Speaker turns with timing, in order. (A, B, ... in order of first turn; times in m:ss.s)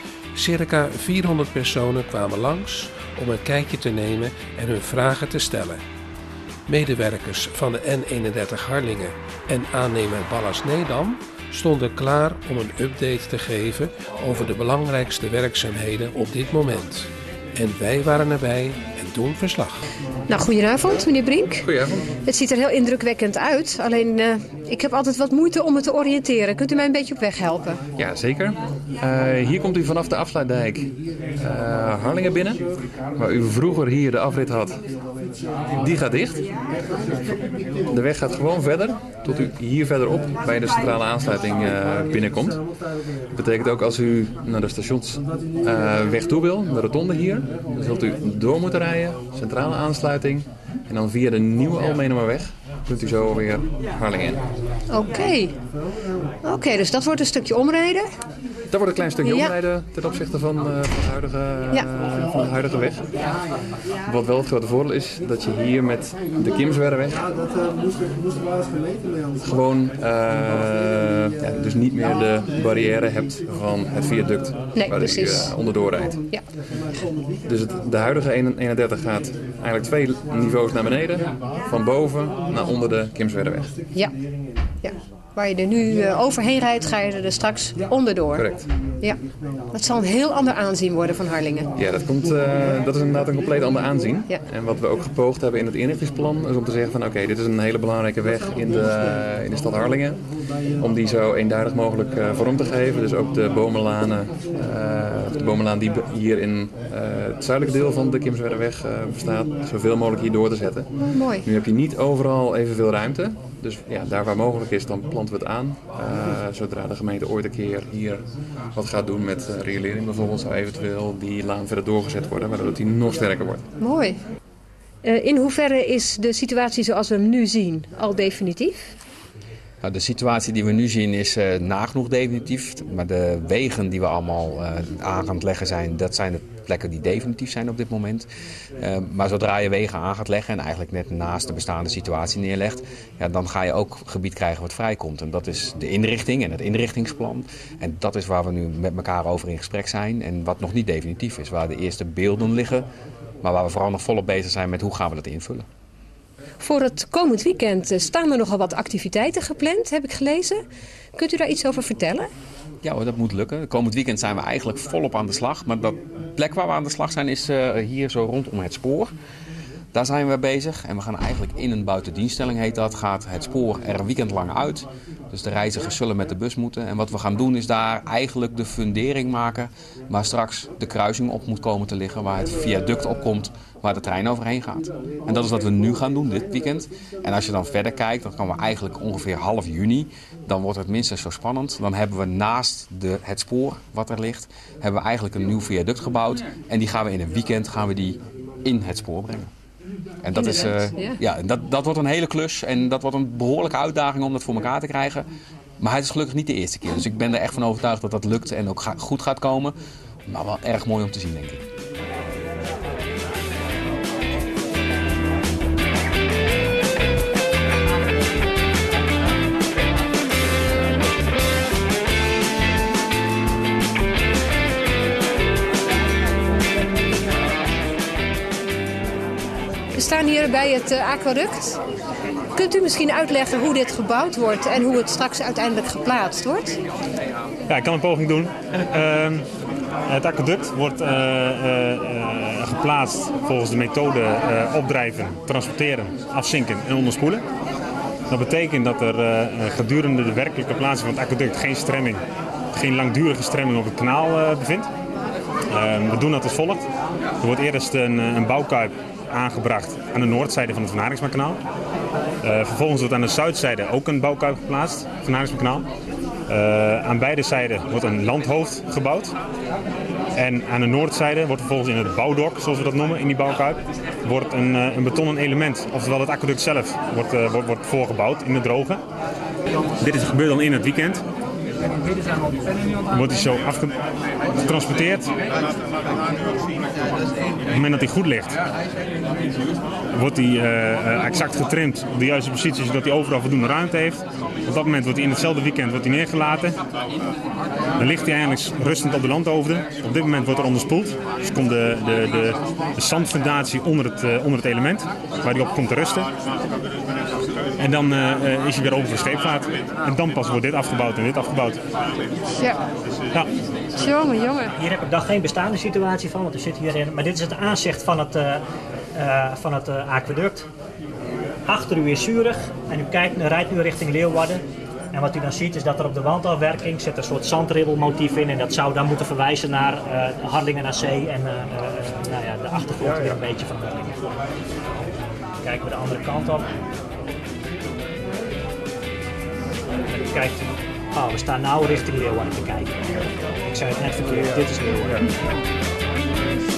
0:00.3-0:05.8 A
0:06.7-0:19.9 A
0:20.3-0:21.6 B
0:21.6-0:22.1 C
0:22.2-0:27.8 B
0:28.0-0:32.6 C
0:33.1-0:34.8 C
0:35.8-0:36.5 C
0:37.9-0:42.6 C
0:43.3-0:54.4 C
0:54.9-0:55.6 B
0:56.4-0:58.1 B
0:58.7-1:03.1 C
0:59.2-0:59.5 B
1:04.0-1:07.2 C
1:09.4-1:16.2 C
1:14.8-1:15.5 B
1:17.4-1:23.7 C
1:24.8-1:28.4 B
1:28.3-1:28.6 C
1:29.7-1:31.7 B
1:31.8-1:40.2 C
1:40.8-1:50.9 C
1:51.1-1:51.4 B
1:51.4-2:03.7 C
2:03.8-2:04.2 B
2:05.0-2:08.9 B
2:09.8-2:18.3 D
2:18.8-2:32.8 D
2:33.4-2:35.6 D
2:36.6-2:40.6 B
2:41.1-2:42.3 B
2:42.8-2:49.1 D
2:49.9-3:19.5 D
3:20.2-3:25.3 D
3:20.3-3:21.2 B
3:25.8-3:31.6 D
3:49.9-3:51.8 B
3:52.5-3:56.8 B
3:57.7-3:59.4 E
4:00.1-4:07.4 E
4:08.3-4:12.2 E
4:12.7-4:14.9 E
4:15.7-4:16.9 E
4:17.4-4:21.6 E
4:22.4-4:25.9 E
4:26.5-4:29.3 E
4:30.4-4:39.0 E
4:40.0-4:41.2 E
4:43.1-4:44.0 E
4:44.6-4:45.3 E
4:47.7-4:48.6 E
4:50.1-4:56.8 E
4:58.0-5:06.3 E
5:07.8-5:11.8 E
5:14.0-5:14.7 B
5:14.8-5:20.7 F
5:21.7-5:34.2 F
5:35.6-5:36.7 F
5:40.1-5:43.0 F
5:43.7-5:45.3 F